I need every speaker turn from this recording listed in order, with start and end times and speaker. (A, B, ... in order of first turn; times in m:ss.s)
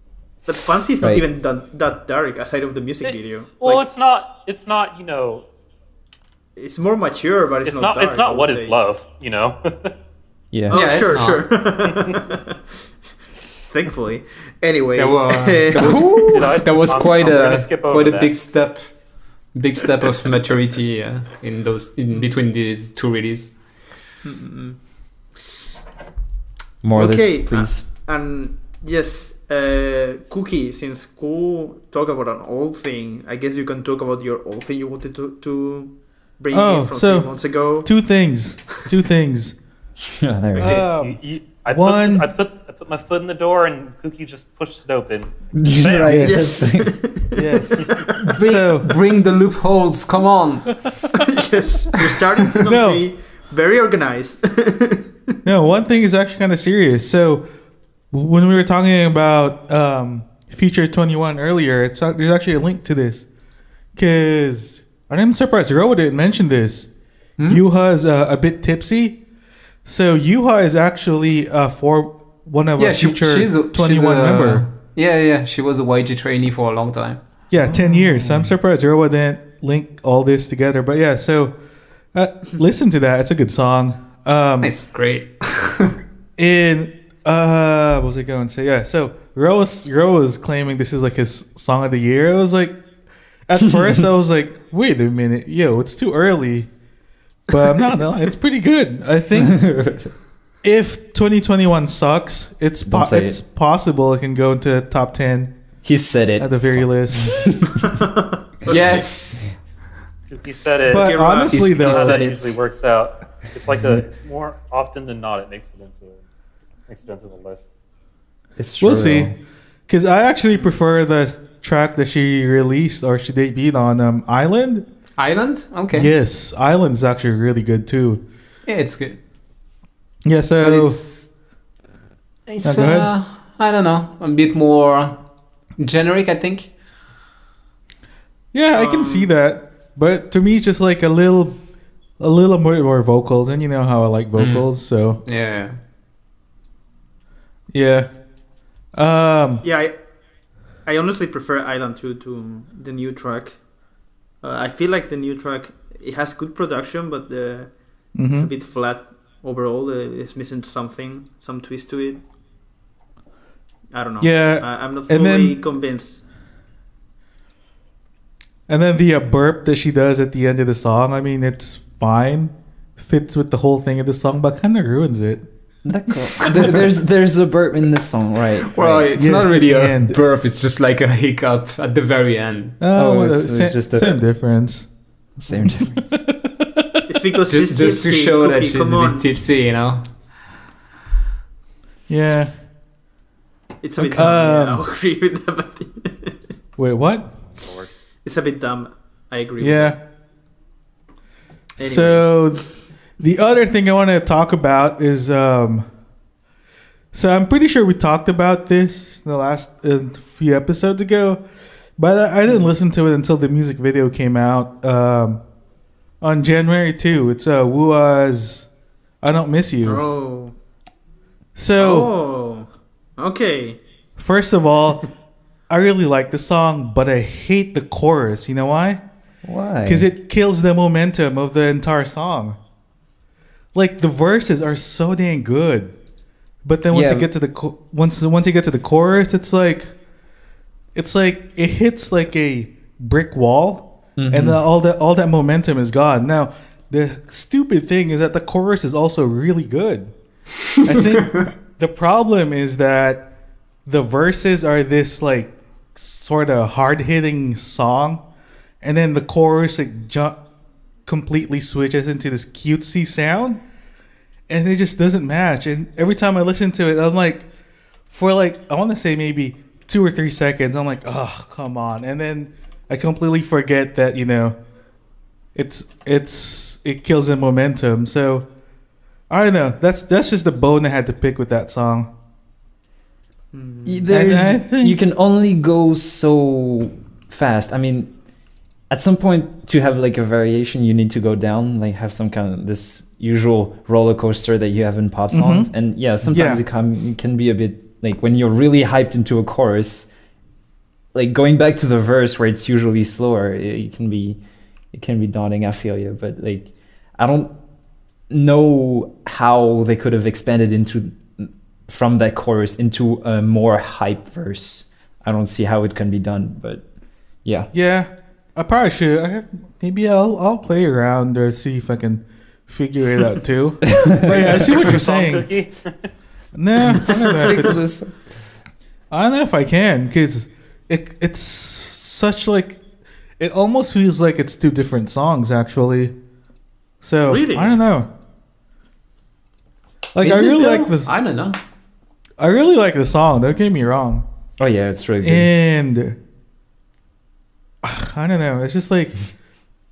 0:00.5-0:03.8 A
0:03.0-0:05.4 B
0:06.6-0:08.8 A
0:07.6-0:09.9 B
0:10.5-0:10.8 C
0:10.7-0:11.5 D
0:10.7-0:12.6 A
0:11.9-0:12.2 B
0:13.7-0:16.1 A
0:15.0-0:18.9 D
0:15.8-0:18.3 B
0:19.5-0:23.5 D
0:24.2-0:24.8 A
0:26.8-0:27.8 C
0:26.9-0:37.9 A
0:36.5-0:37.3 E
0:37.8-0:39.6 E
0:40.1-0:40.9 C
0:40.6-0:41.2 E
0:40.6-0:46.3 B
0:41.7-0:42.3 E
0:45.6-0:47.0 C
0:46.0-0:46.5 E
0:46.1-0:47.8 A
0:47.4-0:49.0 E
0:47.8-0:48.1 B
0:48.1-0:50.7 D
0:51.1-0:55.4 A
0:52.6-0:53.0 E
0:55.4-0:57.4 E
0:58.1-1:03.3 E
1:04.0-1:06.9 E
1:07.4-1:07.6 D
1:07.5-1:09.2 E
1:09.8-1:14.6 E
1:12.8-1:17.2 D
1:17.5-1:21.5 E
1:17.7-1:18.0 A
1:22.1-1:24.7 E
1:24.6-1:26.0 D
1:26.4-1:32.8 E
1:33.5-1:36.7 E
1:37.5-1:39.9 E
1:39.4-1:40.1 C
1:40.6-1:45.5 E
1:42.8-1:43.4 C
1:45.8-1:48.0 C
1:46.4-1:47.5 E
1:47.7-1:48.9 A
1:48.7-1:49.4 D
1:50.3-1:56.2 B
1:50.9-1:52.2 E
1:51.0-1:51.7 A
1:51.5-1:52.5 D
1:56.9-1:57.7 B
1:58.6-1:59.4 C
1:58.8-1:59.3 E
1:59.9-2:04.9 E
2:05.2-2:06.1 D
2:05.9-2:08.2 E
2:08.7-2:09.2 D
2:10.2-2:11.0 E
2:10.6-2:11.3 D
2:12.5-2:15.2 D
2:12.6-2:13.1 E
2:15.8-2:16.7 D
2:18.5-2:21.6 E
2:18.7-2:19.4 A
2:22.2-2:25.2 E
2:24.4-2:24.7 D
2:25.2-2:25.8 D
2:27.7-2:28.1 E
2:29.0-2:29.6 E
2:29.6-2:30.0 A
2:30.9-2:33.6 A
2:34.4-2:37.7 A
2:38.2-2:38.5 E
2:38.3-2:42.2 A
2:43.9-2:46.2 A
2:44.2-2:45.6 E
2:48.7-2:55.4 E
2:55.8-2:59.1 C
2:58.6-3:02.8 D
2:59.2-3:00.2 E
3:02.8-3:04.9 E
3:02.9-3:04.2 C
3:05.4-3:05.9 C
3:05.5-3:06.8 E
3:07.1-3:09.3 A
3:07.5-3:10.1 D
3:12.1-3:12.5 E
3:13.8-3:16.3 A
3:14.0-3:14.8 E
3:16.8-3:17.3 E
3:17.5-3:17.9 B
3:18.2-3:20.0 A
3:19.6-3:20.0 E
3:21.8-3:25.9 E
3:21.8-3:22.4 A
3:27.1-3:31.4 E
3:32.0-3:35.4 E
3:36.2-3:38.7 E
3:39.2-3:40.0 E
3:39.8-3:40.5 A
3:41.6-3:42.1 E
3:41.8-3:42.7 A
3:43.2-3:43.8 A
3:44.2-3:45.1 E
3:45.7-3:49.0 E
3:49.4-3:50.1 C
3:49.9-3:52.6 E
3:53.7-3:55.9 E
3:56.6-3:59.9 E
3:56.9-3:57.3 C
4:01.0-4:10.1 E
4:04.2-4:04.7 C
4:10.7-4:11.5 D
4:10.8-4:13.2 E
4:13.9-4:18.2 E
4:18.8-4:20.4 E
4:21.1-4:23.6 E
4:24.5-4:27.5 E
4:28.1-4:34.6 E
4:35.6-4:38.5 E
4:39.3-4:42.1 E
4:43.5-4:44.2 A
4:43.9-4:48.1 C
4:44.1-4:45.0 E
4:48.9-5:00.1 C
4:55.3-4:55.7 E
4:56.3-4:56.6 E
5:01.1-5:04.4 C
5:04.9-5:07.5 C
5:08.3-5:16.8 C
5:17.4-5:17.7 C
5:17.7-5:25.5 E
5:23.9-5:24.5 C
5:24.3-5:25.9 B
5:26.5-5:27.8 E
5:26.9-5:28.1 C
5:27.1-5:27.7 A
5:29.1-5:32.8 E
5:33.4-5:36.1 E
5:37.0-5:38.1 E
5:37.3-5:37.8 A
5:40.1-5:41.1 E
5:40.2-5:41.6 D
5:42.4-5:44.2 E
5:44.6-5:45.5 C
5:45.2-5:46.2 E
5:47.8-5:49.3 E